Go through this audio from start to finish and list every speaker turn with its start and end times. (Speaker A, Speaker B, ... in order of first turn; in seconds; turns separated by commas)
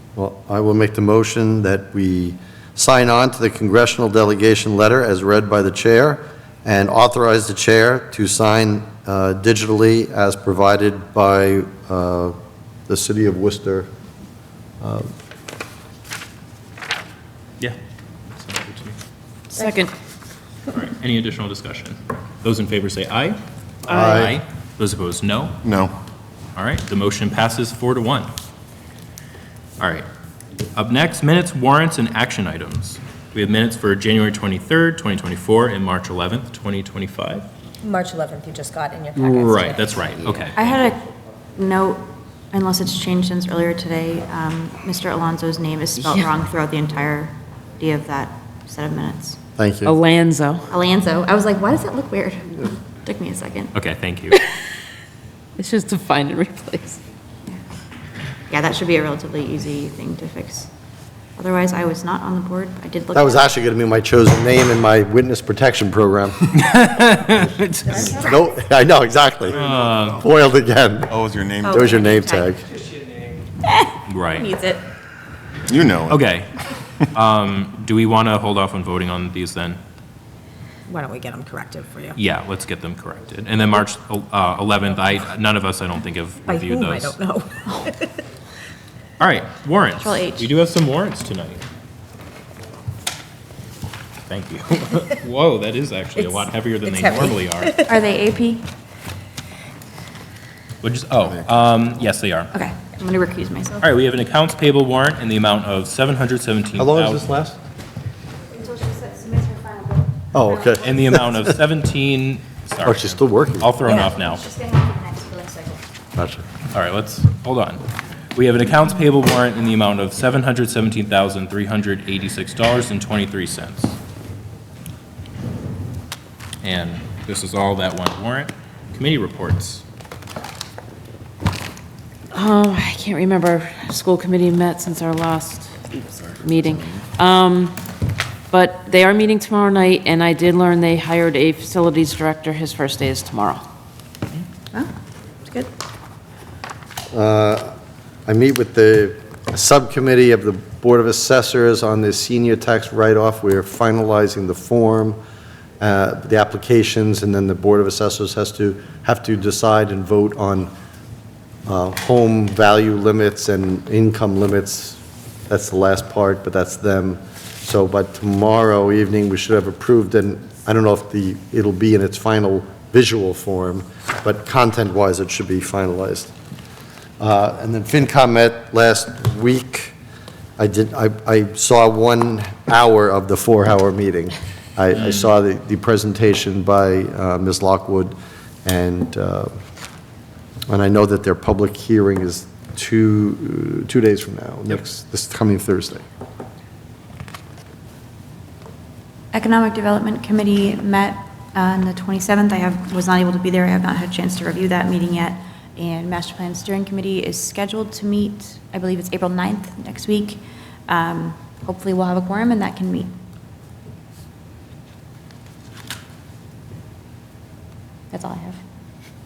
Speaker A: 0.1-12.3, Speaker A: 12.9-13.9, Speaker A: 14.8-15.1, Speaker B: 18.3-19.0, Speaker C: 19.5-19.9, Speaker B: 20.7-23.4, Speaker A: 23.9-24.4, Speaker B: 23.9-25.6, Speaker D: 25.6-25.9, Speaker B: 26.6-28.3, Speaker B: 29.8-30.1, Speaker B: 30.7-37.5, Speaker E: 37.9-39.1, Speaker B: 39.1-40.7, Speaker F: 40.5-41.0, Speaker F: 41.5-49.4, Speaker A: 49.6-50.0, Speaker C: 49.8-50.6, Speaker F: 50.7-53.7, Speaker B: 53.7-54.4, Speaker C: 54.3-54.6, Speaker C: 55.6-57.0, Speaker F: 58.5-60.7, Speaker F: 61.4-63.5, Speaker A: 63.1-66.6, Speaker B: 66.5-68.2, Speaker A: 67.9-69.6, Speaker D: 69.5-70.2, Speaker B: 69.6-70.2, Speaker A: 70.1-71.1, Speaker D: 71.1-72.0, Speaker F: 71.6-72.6, Speaker A: 71.7-72.6, Speaker F: 73.6-74.8, Speaker B: 74.0-74.5, Speaker D: 75.7-76.2, Speaker B: 76.1-76.5, Speaker B: 77.1-79.8, Speaker E: 81.3-82.0, Speaker B: 82.1-87.2, Speaker B: 89.2-91.6, Speaker F: 90.0-90.5, Speaker B: 94.3-97.9, Speaker F: 97.8-98.7, Speaker B: 100.8-102.5, Speaker F: 102.5-103.8, Speaker B: 103.8-107.3, Speaker A: 106.8-107.6, Speaker F: 109.1-109.6, Speaker A: 110.3-111.6, Speaker B: 110.8-114.4, Speaker A: 112.8-113.8, Speaker F: 113.9-115.8, Speaker A: 116.2-116.4, Speaker B: 116.7-117.8, Speaker B: 118.3-124.0, Speaker B: 126.6-129.8, Speaker C: 132.3-137.8, Speaker D: 136.3-136.8, Speaker C: 138.5-143.6, Speaker F: 145.4-145.7, Speaker A: 147.1-147.7, Speaker A: 148.2-155.2, Speaker A: 155.8-160.7, Speaker A: 161.7-176.3, Speaker A: 177.2-179.9, Speaker A: 180.6-188.1, Speaker B: 184.9-185.3, Speaker A: 188.6-189.5, Speaker A: 190.7-196.0, Speaker F: 199.3-213.1, Speaker F: 218.1-218.6